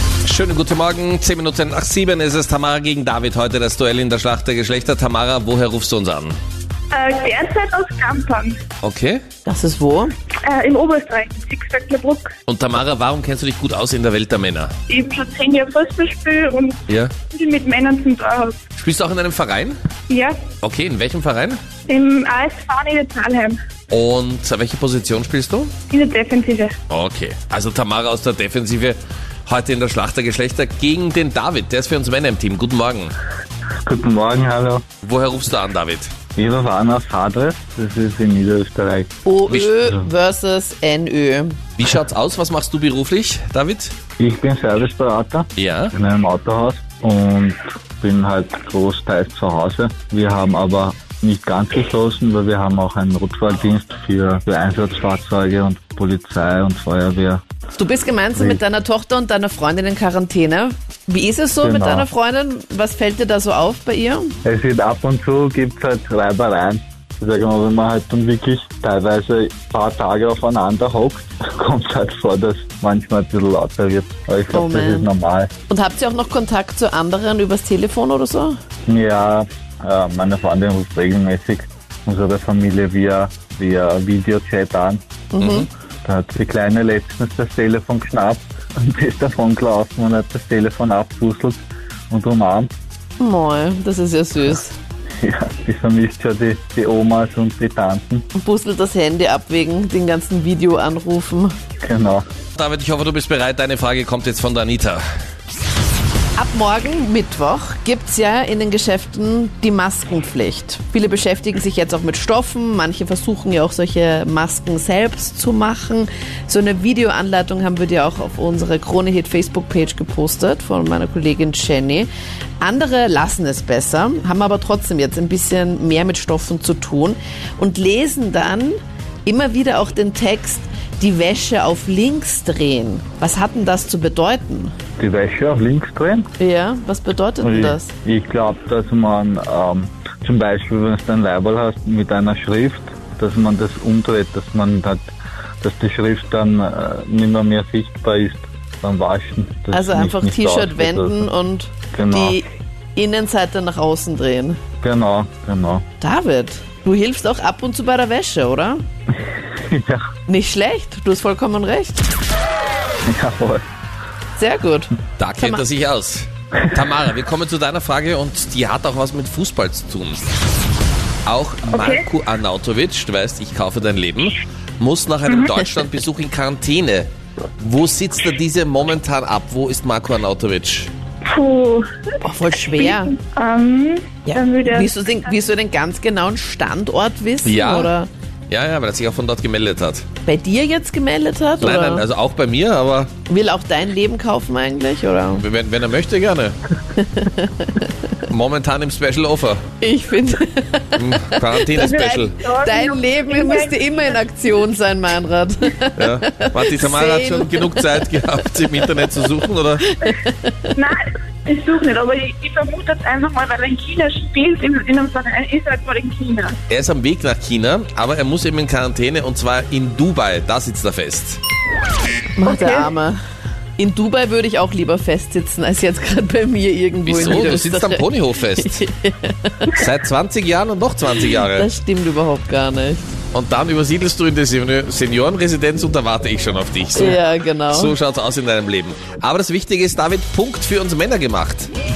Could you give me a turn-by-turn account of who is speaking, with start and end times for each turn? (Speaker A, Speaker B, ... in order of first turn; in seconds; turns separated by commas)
Speaker A: 0.2-6.4, Speaker B: 6.9-8.6, Speaker A: 8.8-9.2, Speaker C: 9.4-10.1, Speaker B: 10.4-12.3, Speaker A: 12.5-14.7, Speaker B: 14.9-18.6, Speaker A: 16.9-17.1, Speaker A: 18.8-19.8, Speaker B: 20.1-20.5, Speaker A: 20.6-21.6, Speaker B: 21.9-23.6, Speaker A: 23.9-25.7, Speaker B: 25.9-26.8, Speaker A: 26.9-33.1, Speaker D: 33.8-34.9, Speaker A: 35.0-36.1, Speaker D: 36.4-39.1, Speaker C: 39.2-41.6, Speaker A: 41.8-43.9, Speaker D: 44.2-57.4, Speaker A: 45.6-45.9, Speaker C: 57.8-64.3, Speaker D: 58.4-58.6, Speaker D: 61.6-62.1, Speaker D: 64.5-75.5, Speaker C: 74.5-75.1, Speaker C: 75.7-78.6, Speaker D: 78.9-85.0, Speaker C: 85.3-85.7, Speaker A: 85.4-85.7, Speaker D: 86.0-92.7, Speaker C: 93.2-94.8, Speaker D: 95.2-98.3, Speaker C: 98.3-101.6, Speaker D: 101.8-102.3, Speaker A: 102.6-105.0, Speaker C: 106.4-122.1, Speaker C: 122.6-134.7, Speaker D: 135.0-136.3, Speaker C: 136.4-137.9, Speaker D: 137.4-145.0, Speaker D: 145.6-151.3, Speaker C: 149.7-154.6, Speaker D: 151.9-152.4, Speaker D: 154.8-155.9, Speaker C: 156.0-158.8, Speaker D: 159.5-160.0, Speaker C: 160.3-162.1, Speaker D: 163.1-163.6, Speaker C: 164.3-165.6, Speaker A: 165.2-170.2, Speaker A: 171.3-177.1, Speaker B: 171.7-172.1, Speaker B: 175.3-175.5, Speaker A: 177.6-180.9, Speaker B: 181.2-181.9, Speaker C: 182.2-183.2, Speaker B: 182.7-184.9, Speaker C: 184.3-188.1, Speaker A: 187.4-187.9, Speaker A: 188.5-190.1, Speaker C: 190.3-192.1, Speaker A: 191.6-193.1, Speaker C: 193.3-195.4, Speaker A: 195.4-196.6, Speaker C: 196.9-197.9, Speaker A: 198.3-199.6, Speaker C: 199.8-201.8, Speaker A: 200.9-202.4, Speaker B: 201.8-204.2, Speaker C: 202.6-208.1, Speaker A: 206.0-210.0, Speaker C: 209.8-210.7, Speaker B: 210.8-216.6, Speaker A: 216.7-221.4, Speaker C: 222.4-223.2, Speaker B: 222.4-222.9, Speaker C: 223.8-229.7, Speaker A: 227.1-228.9, Speaker A: 229.7-231.7, Speaker C: 231.2-233.1, Speaker A: 233.3-241.7, Speaker C: 236.9-238.0